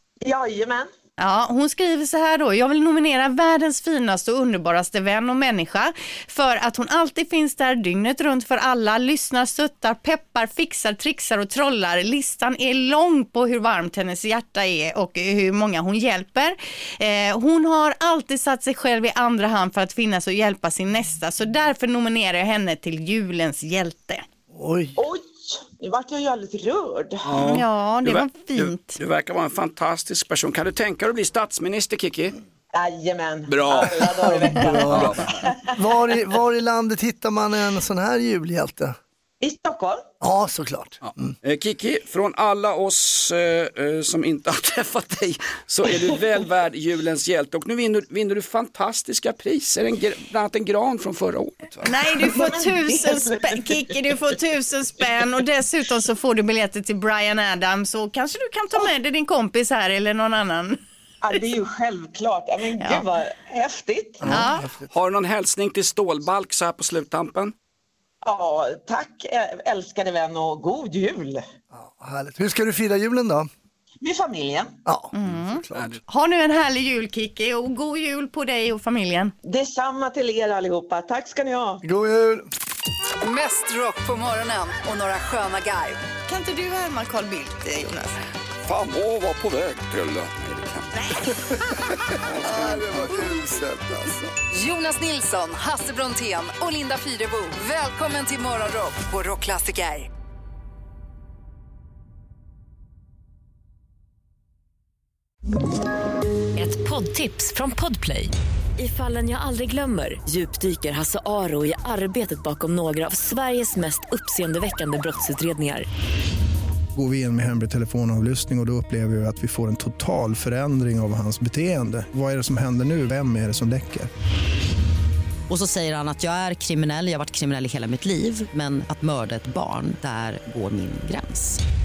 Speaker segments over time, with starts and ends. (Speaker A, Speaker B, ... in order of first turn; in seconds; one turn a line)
Speaker A: 0.2-0.9
Speaker B: 1.2-24.2
Speaker C: 24.5-24.9
Speaker A: 25.0-27.4
Speaker D: 27.2-32.4
Speaker B: 27.5-29.0
Speaker A: 32.7-35.7
Speaker D: 33.5-35.4
Speaker C: 34.3-35.1
Speaker C: 35.7-39.0
Speaker A: 39.4-40.0
Speaker C: 40.2-41.3
Speaker D: 41.0-52.1
Speaker B: 51.8-60.8
Speaker A: 52.2-54.1
Speaker A: 61.2-64.3
Speaker C: 64.2-64.9
Speaker B: 64.3-64.7
Speaker D: 64.9-67.5
Speaker A: 68.2-71.4
Speaker C: 71.7-73.5
Speaker A: 74.0-74.8
Speaker C: 74.8-76.0
Speaker B: 75.1-79.3
Speaker D: 75.7-76.0
Speaker A: 79.4-81.8
Speaker C: 81.8-82.5
Speaker E: 83.2-86.0
Speaker B: 86.3-88.2
Speaker D: 88.6-91.0
Speaker C: 92.4-94.3
Speaker E: 94.5-100.1
Speaker F: 106.6-115.8
Speaker G: 116.9-124.1
Speaker H: 125.5-131.6